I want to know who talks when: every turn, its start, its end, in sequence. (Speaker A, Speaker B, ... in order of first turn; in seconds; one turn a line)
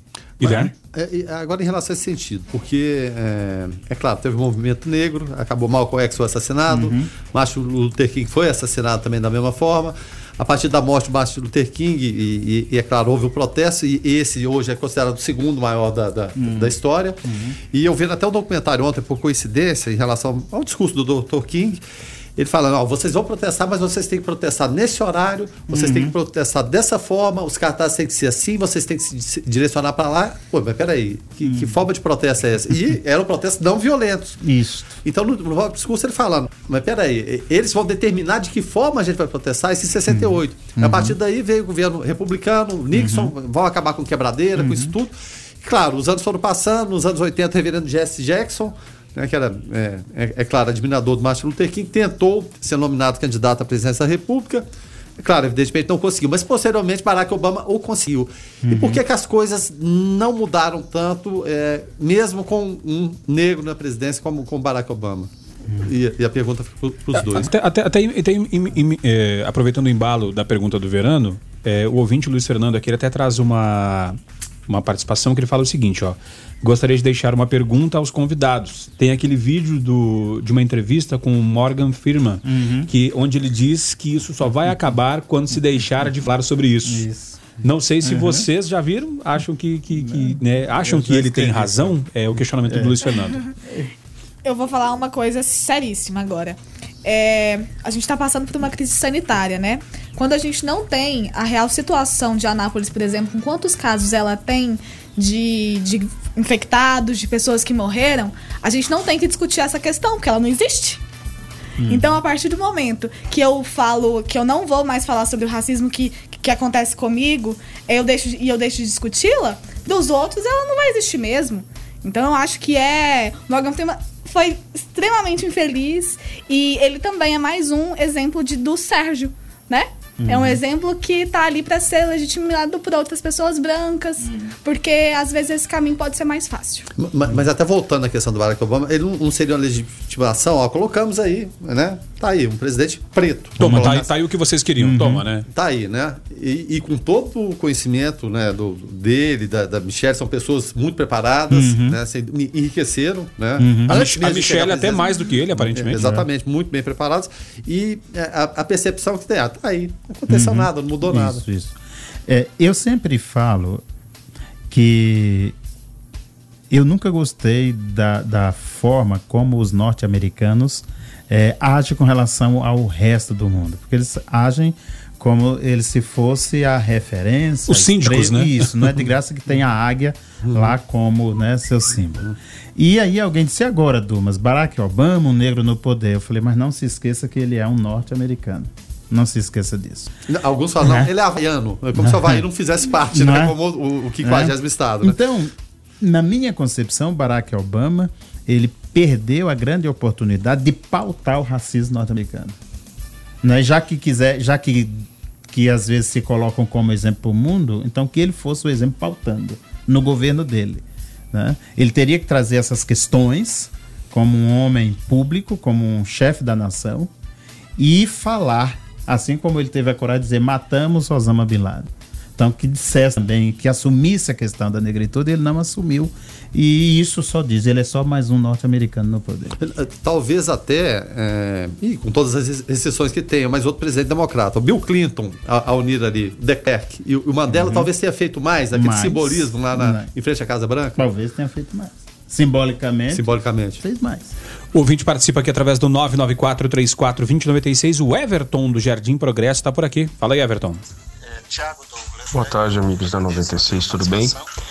Speaker A: 0.4-0.7
Speaker B: 0.4-17.2
Speaker C: 6.7-7.1
Speaker C: 16.4-17.6
Speaker B: 17.7-21.8
Speaker B: 22.4-34.4
Speaker C: 25.7-26.1
Speaker C: 31.4-31.8
Speaker C: 34.4-35.0
Speaker B: 35.0-54.7
Speaker C: 40.1-41.2
Speaker C: 42.9-43.4
Speaker C: 44.6-44.9
Speaker B: 55.2-67.5
Speaker C: 58.6-59.0
Speaker C: 65.7-65.9
Speaker A: 67.1-87.1
Speaker C: 82.4-82.9
Speaker C: 86.8-88.5
Speaker A: 87.6-93.4
Speaker C: 89.9-92.0
Speaker C: 92.7-93.1
Speaker C: 93.6-93.9
Speaker D: 94.5-111.0
Speaker C: 111.8-112.2
Speaker D: 111.9-136.9
Speaker C: 130.2-130.6
Speaker B: 137.0-144.1
Speaker A: 143.6-145.5
Speaker C: 143.6-144.0
Speaker C: 144.8-145.2
Speaker B: 145.5-161.4
Speaker C: 151.5-152.0
Speaker C: 153.6-154.0
Speaker A: 153.9-156.1
Speaker C: 155.9-156.3
Speaker C: 160.3-163.8
Speaker C: 164.7-165.6
Speaker C: 166.7-190.1
Speaker A: 177.7-178.9
Speaker B: 180.4-180.8
Speaker B: 190.3-195.2
Speaker C: 190.8-191.1
Speaker C: 191.9-192.5
Speaker C: 193.1-193.6
Speaker C: 194.2-202.6
Speaker C: 203.4-217.1
Speaker C: 217.8-229.6
Speaker B: 229.6-241.0
Speaker C: 237.5-237.9
Speaker C: 238.7-240.1
Speaker C: 241.0-243.2
Speaker B: 243.1-243.8
Speaker C: 243.8-244.3
Speaker A: 244.7-250.8
Speaker E: 252.3-254.3